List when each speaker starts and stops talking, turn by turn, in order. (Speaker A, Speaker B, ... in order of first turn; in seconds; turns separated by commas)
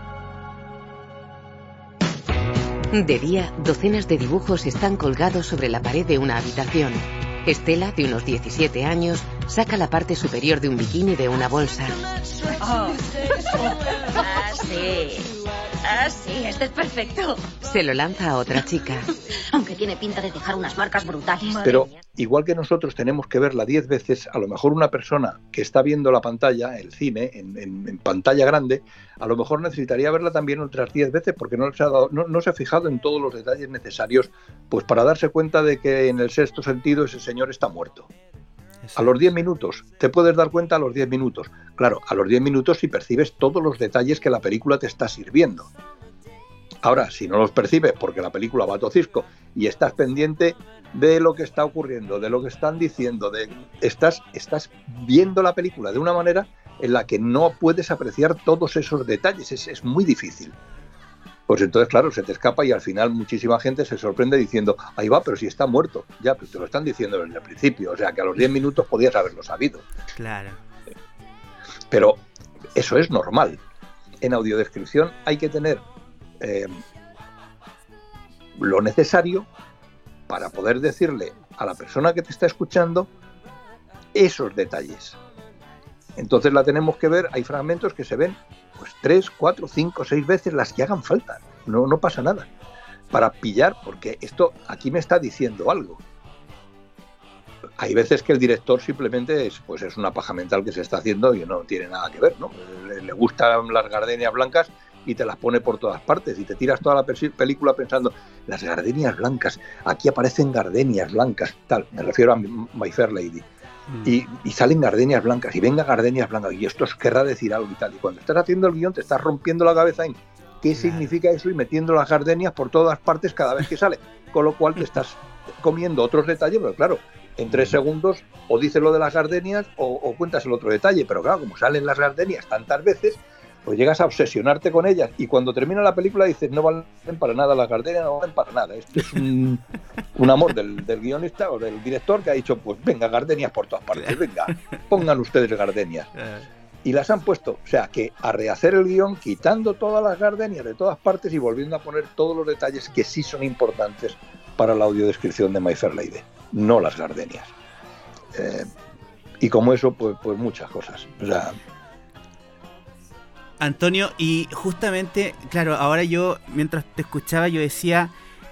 Speaker A: 2.9-12.0, Speaker B: 12.6-15.3, Speaker B: 15.8-17.4, Speaker A: 17.6-19.1, Speaker B: 19.5-21.9, Speaker C: 21.6-38.1, Speaker D: 38.8-39.1, Speaker C: 39.0-45.7, Speaker C: 46.8-60.5, Speaker C: 61.5-69.8, Speaker D: 70.2-70.6, Speaker C: 71.9-72.2, Speaker C: 72.8-73.6, Speaker C: 74.2-75.8, Speaker C: 76.4-76.8, Speaker C: 78.6-79.5, Speaker C: 80.3-83.1, Speaker C: 84.1-85.2, Speaker C: 86.2-92.5, Speaker C: 93.1-96.0, Speaker C: 97.8-113.5, Speaker D: 113.9-114.2, Speaker C: 114.0-139.6, Speaker D: 120.8-121.1, Speaker C: 140.2-146.1, Speaker D: 146.2-146.4, Speaker C: 146.8-157.5, Speaker C: 158.3-158.7, Speaker C: 159.4-161.6, Speaker D: 163.6-168.1